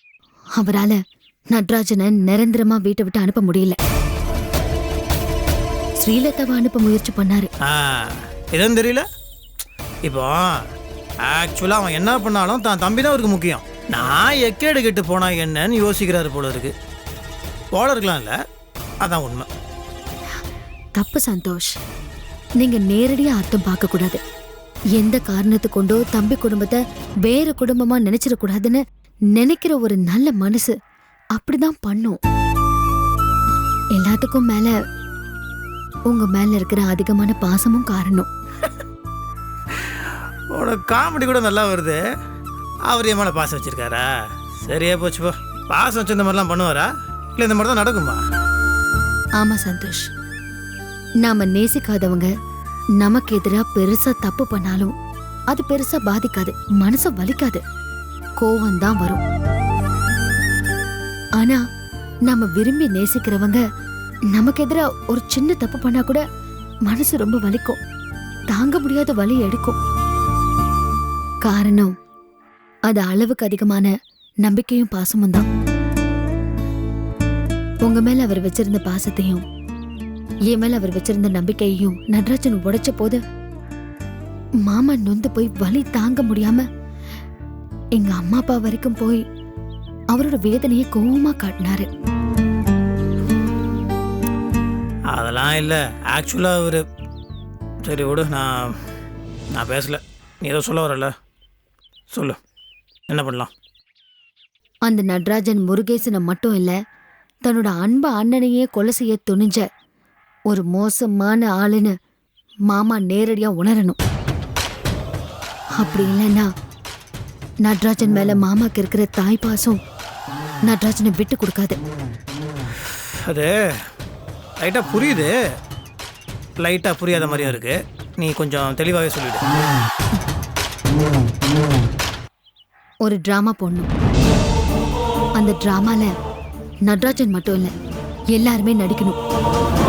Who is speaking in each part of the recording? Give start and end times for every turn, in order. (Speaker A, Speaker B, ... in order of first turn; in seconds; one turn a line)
Speaker A: 0.6-1.0
Speaker A: 1.5-3.8
Speaker A: 6.0-7.5
Speaker B: 7.6-9.0
Speaker B: 10.0-10.6
Speaker B: 11.3-16.7
Speaker B: 17.7-18.3
Speaker B: 19.0-19.5
Speaker A: 21.0-21.7
Speaker A: 22.6-24.2
Speaker A: 25.0-28.8
Speaker A: 29.4-30.8
Speaker A: 31.3-32.2
Speaker A: 34.0-34.7
Speaker A: 36.1-38.3
Speaker B: 40.5-42.0
Speaker B: 42.9-44.1
Speaker B: 44.6-48.2
Speaker A: 49.4-50.1
Speaker A: 51.2-52.3
Speaker A: 53.0-54.9
Speaker A: 55.5-57.6
Speaker A: 58.4-59.2
Speaker A: 62.3-63.6
Speaker A: 64.3-66.2
Speaker A: 66.9-67.8
Speaker A: 68.5-69.8
Speaker A: 71.5-71.9
Speaker A: 72.9-73.9
Speaker A: 74.4-75.5
Speaker A: 77.8-79.5
Speaker A: 80.5-83.2
Speaker A: 84.7-86.7
Speaker A: 88.0-89.2
Speaker A: 90.1-91.9
Speaker B: 95.1-96.8
Speaker B: 97.8-98.8
Speaker B: 99.5-101.1
Speaker B: 102.1-102.4
Speaker B: 103.1-103.5
Speaker A: 104.8-106.8
Speaker A: 107.5-109.7
Speaker A: 110.5-111.9
Speaker A: 112.7-114.0
Speaker A: 115.8-116.5
Speaker A: 117.6-119.8
Speaker A: 120.7-121.8
Speaker B: 123.3-123.8
Speaker B: 124.6-125.3
Speaker B: 126.6-129.4
Speaker A: 133.0-133.9
Speaker A: 135.4-136.1
Speaker A: 136.9-137.7
Speaker A: 138.3-139.2